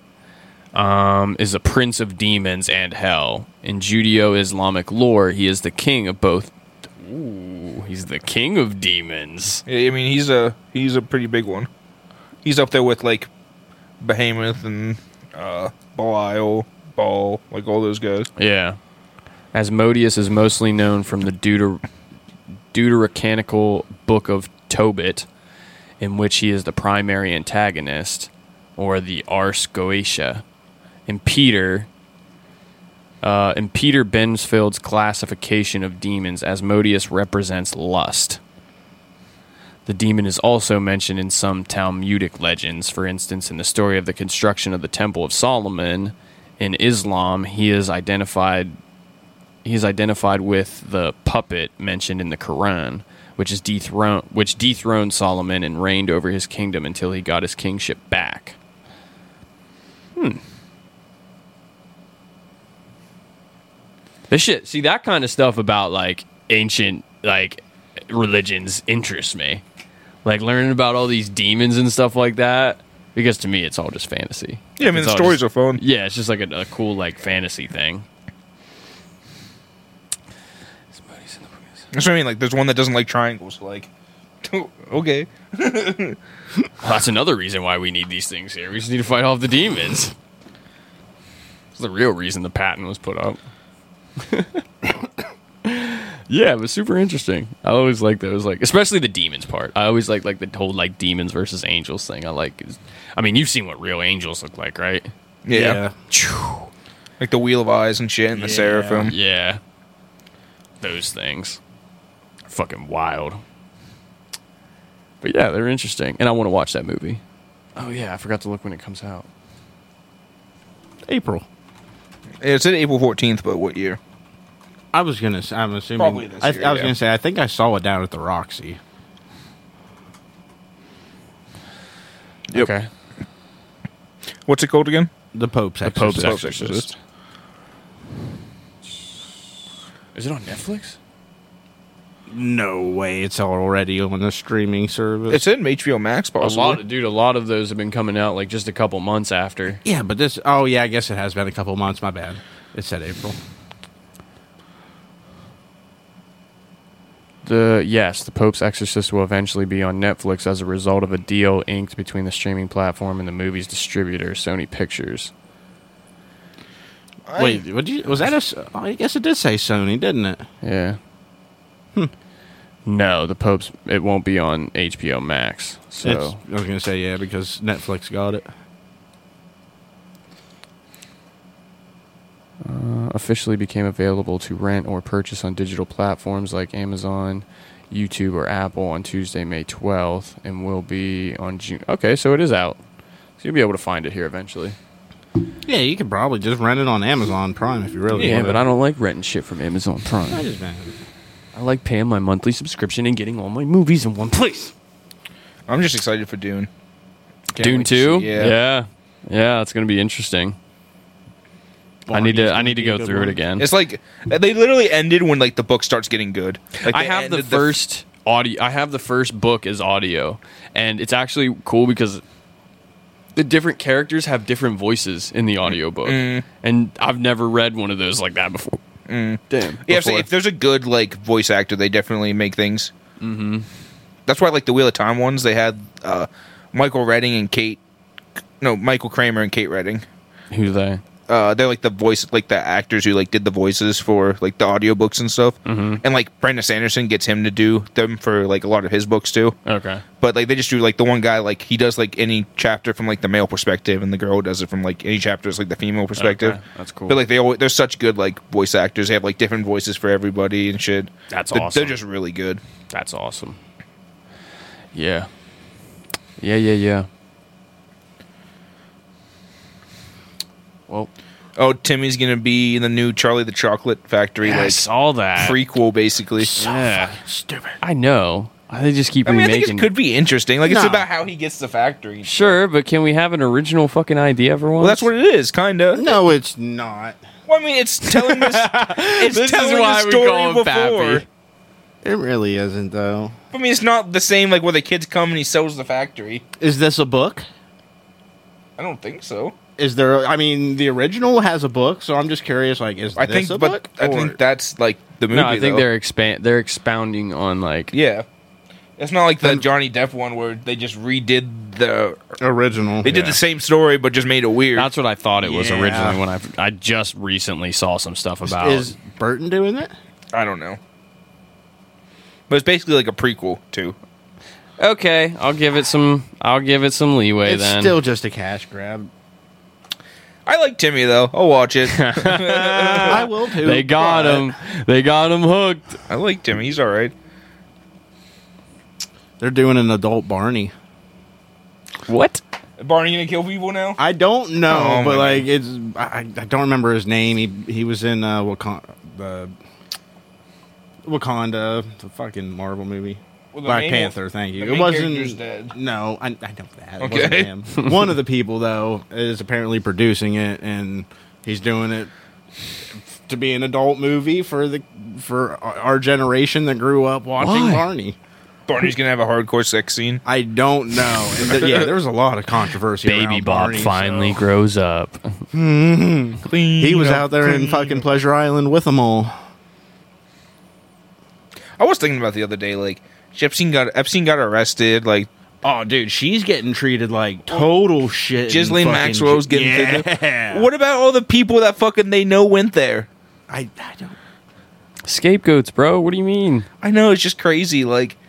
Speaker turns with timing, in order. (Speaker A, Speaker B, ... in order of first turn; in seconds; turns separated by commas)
Speaker A: 0.7-9.6, Speaker B: 9.7-11.7, Speaker B: 12.4-13.3, Speaker B: 14.0-18.3, Speaker A: 18.4-18.8, Speaker A: 19.5-21.8, Speaker A: 22.7-25.3, Speaker A: 26.0-30.4, Speaker A: 31.1-31.9, Speaker A: 33.2-38.4, Speaker A: 39.9-48.8, Speaker A: 49.6-58.5, Speaker A: 60.1-60.4, Speaker A: 64.3-69.6, Speaker A: 70.2-78.0, Speaker B: 74.8-75.8, Speaker A: 80.9-81.8, Speaker B: 81.9-83.9, Speaker B: 84.4-86.2, Speaker A: 86.8-90.1, Speaker A: 91.7-93.4, Speaker A: 94.2-94.6, Speaker A: 95.6-105.1, Speaker B: 105.5-105.8, Speaker C: 105.5-105.9, Speaker A: 106.1-106.7, Speaker B: 107.2-109.1, Speaker C: 108.3-109.1, Speaker A: 109.0-109.6, Speaker A: 110.8-111.6, Speaker A: 112.5-113.4, Speaker A: 115.2-117.2, Speaker A: 117.8-119.3, Speaker C: 121.0-121.4, Speaker B: 122.4-124.0, Speaker C: 124.9-128.8, Speaker B: 126.0-126.9, Speaker A: 132.5-132.9, Speaker B: 134.5-135.1, Speaker C: 135.3-136.7, Speaker A: 135.8-136.9, Speaker B: 136.1-136.9, Speaker A: 140.1-141.0, Speaker C: 142.3-145.4, Speaker B: 145.3-146.8, Speaker A: 146.4-149.8, Speaker C: 149.8-153.4, Speaker A: 157.4-165.3, Speaker B: 167.2-167.6, Speaker C: 167.4-170.4, Speaker A: 170.6-171.0, Speaker A: 172.8-176.4, Speaker C: 176.0-178.5, Speaker A: 182.6-192.8, Speaker A: 193.4-194.8, Speaker C: 195.7-198.6, Speaker A: 198.1-200.4, Speaker C: 200.3-200.9, Speaker A: 201.5-204.7, Speaker B: 205.7-206.7, Speaker C: 207.5-208.1, Speaker A: 207.6-210.6, Speaker B: 208.0-208.5, Speaker C: 212.1-213.4, Speaker A: 212.1-213.7, Speaker B: 213.6-217.7, Speaker A: 216.9-222.2, Speaker A: 223.3-228.8, Speaker B: 226.0-226.4, Speaker B: 229.1-232.9, Speaker A: 229.5-230.3, Speaker A: 233.2-233.7, Speaker B: 234.3-237.8, Speaker B: 238.6-240.0, Speaker A: 240.5-241.0, Speaker B: 241.3-249.6, Speaker A: 245.7-246.0, Speaker A: 249.7-250.0, Speaker B: 250.2-262.6, Speaker A: 256.1-257.2, Speaker A: 261.3-261.9, Speaker A: 262.9-263.6, Speaker A: 264.9-265.3, Speaker A: 266.4-267.1, Speaker B: 271.6-274.8, Speaker A: 274.4-275.6, Speaker B: 275.4-276.5, Speaker C: 276.4-277.8, Speaker A: 276.6-277.2, Speaker A: 277.8-279.9, Speaker B: 279.2-282.6, Speaker C: 280.6-281.1, Speaker A: 282.2-285.1, Speaker B: 284.8-286.0, Speaker C: 285.9-287.2, Speaker B: 287.5-291.2, Speaker A: 288.2-291.2, Speaker C: 292.0-293.3, Speaker B: 293.5-296.4, Speaker C: 296.6-297.4, Speaker B: 298.8-299.5, Speaker C: 299.8-304.4, Speaker B: 303.2-305.9, Speaker A: 305.3-307.9, Speaker B: 307.9-308.2, Speaker B: 309.0-312.2, Speaker C: 312.4-313.4, Speaker B: 313.0-314.9, Speaker A: 314.7-318.9, Speaker C: 315.4-316.2, Speaker C: 318.4-319.9, Speaker B: 320.3-320.8, Speaker B: 322.5-323.9, Speaker A: 324.8-327.9, Speaker C: 327.4-329.1, Speaker B: 330.4-333.2, Speaker A: 331.9-336.0, Speaker C: 333.1-334.5, Speaker B: 336.1-337.1, Speaker C: 339.4-340.7, Speaker A: 342.1-342.4, Speaker B: 342.8-344.0, Speaker C: 344.0-349.5, Speaker B: 344.7-345.4, Speaker C: 351.0-362.1, Speaker B: 353.5-355.7, Speaker B: 357.0-357.5, Speaker C: 363.1-368.1, Speaker A: 367.4-367.8, Speaker B: 368.7-370.2, Speaker C: 370.2-374.4, Speaker B: 371.5-371.9, Speaker A: 373.0-375.4, Speaker C: 375.5-379.3, Speaker B: 376.4-378.0, Speaker B: 381.8-385.3, Speaker C: 385.6-390.7, Speaker B: 388.5-393.1, Speaker C: 393.5-394.2, Speaker A: 395.1-396.7, Speaker B: 396.8-398.2